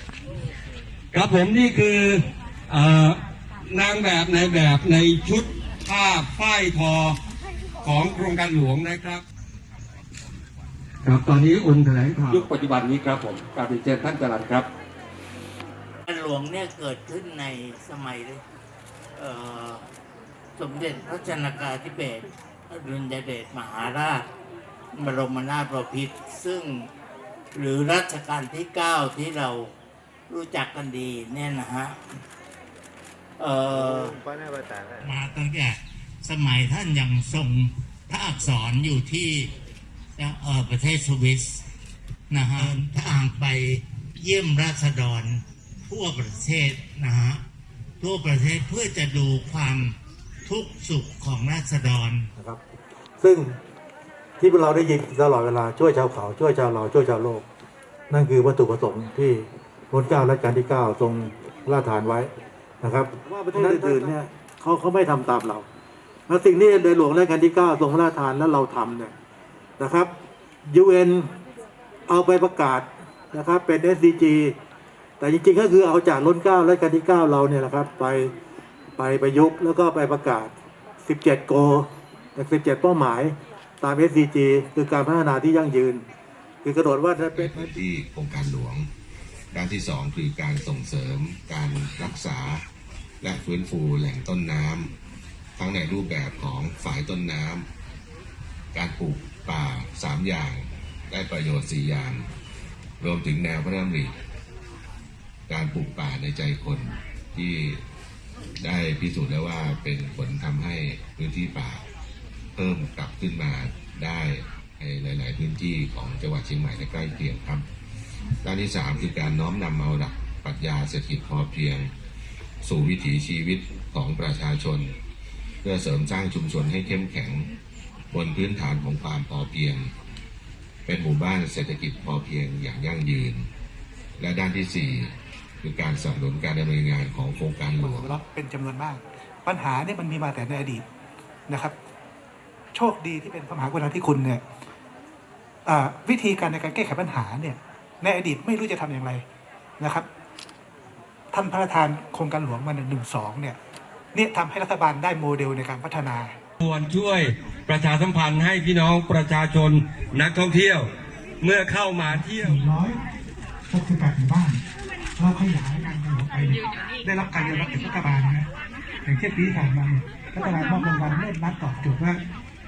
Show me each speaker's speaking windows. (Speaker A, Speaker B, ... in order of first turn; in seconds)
Speaker A: 1.1-7.2, 7.8-9.2, 11.0-14.7, 156.6-160.9, 161.4-162.6
Speaker B: 16.1-18.4, 19.1-19.8, 20.6-24.3, 24.9-26.9, 27.5-29.7, 30.3-32.0, 33.4-34.2, 35.0-39.5, 40.1-41.6, 42.3-47.4, 48.0-52.3
Speaker C: 34.1-35.0, 63.3-64.1, 87.3-88.9, 89.5-92.7, 93.2-95.0, 95.5-97.7, 98.7-102.3, 103.0-104.2, 105.5-107.8, 108.6-111.8, 112.5-117.7, 118.4-121.9, 122.6-125.0, 125.6-127.5, 128.1-129.9, 130.8-133.5, 134.2-138.2
Speaker D: 53.2-53.6, 54.4-57.4, 58.1-65.7, 66.3-69.1, 69.8-70.1, 70.7-71.3, 72.1-74.5, 75.2-78.3, 79.0-86.0, 86.6-87.7
Speaker E: 137.8-140.8, 141.5-141.7, 142.7-144.4, 145.6-149.2, 149.8-150.1, 151.3-153.6, 154.1-156.3, 162.1-163.0, 163.7-164.6, 165.2-168.5, 169.0-172.2